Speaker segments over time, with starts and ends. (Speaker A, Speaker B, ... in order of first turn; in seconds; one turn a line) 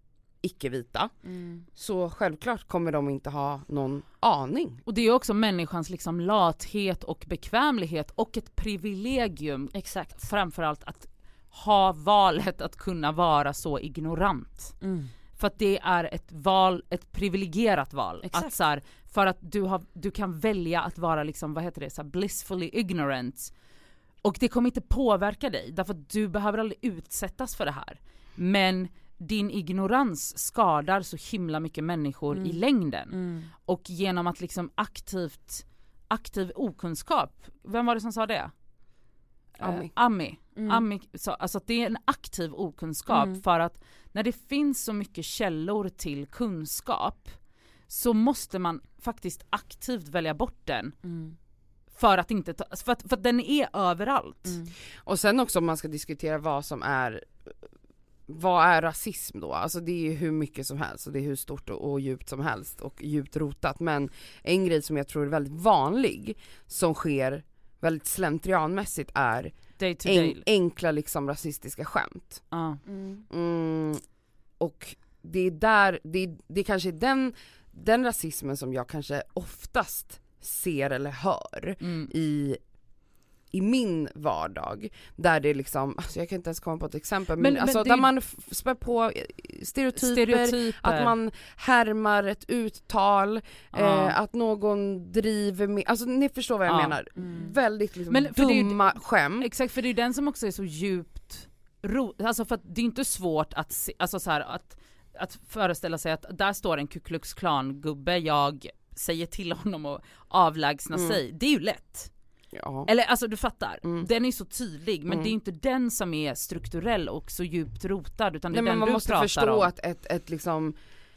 Speaker A: 0.4-1.1
Speaker B: 1.2-1.6
Speaker A: 1.7-4.8
Speaker C: 4.8-14.8
Speaker B: 9.7-10.2
Speaker B: 14.8-15.1
Speaker C: 15.4-23.5
Speaker B: 18.2-18.5
Speaker C: 24.2-38.5
Speaker B: 32.3-32.6
Speaker B: 33.1-33.5
Speaker C: 39.6-47.4
Speaker A: 39.6-39.9
Speaker B: 40.5-40.8
Speaker B: 43.1-43.4
Speaker C: 47.9-50.9
Speaker B: 51.0-51.4
Speaker C: 51.9-54.6
Speaker B: 54.5-54.7
Speaker A: 55.0-57.5
Speaker A: 58.3-72.4
Speaker C: 69.8-70.4
Speaker C: 72.5-72.8
Speaker B: 72.9-73.2
Speaker A: 73.3-74.0
Speaker A: 74.6-82.6
Speaker C: 81.8-82.1
Speaker A: 83.5-99.5
Speaker C: 87.4-88.1
Speaker C: 90.0-91.1
Speaker C: 93.7-94.2
Speaker C: 96.7-96.9
Speaker B: 97.2-97.5
Speaker C: 98.1-112.1
Speaker A: 110.9-111.2
Speaker A: 112.5-112.9
Speaker C: 112.8-119.7
Speaker A: 115.1-115.3
Speaker A: 118.5-120.8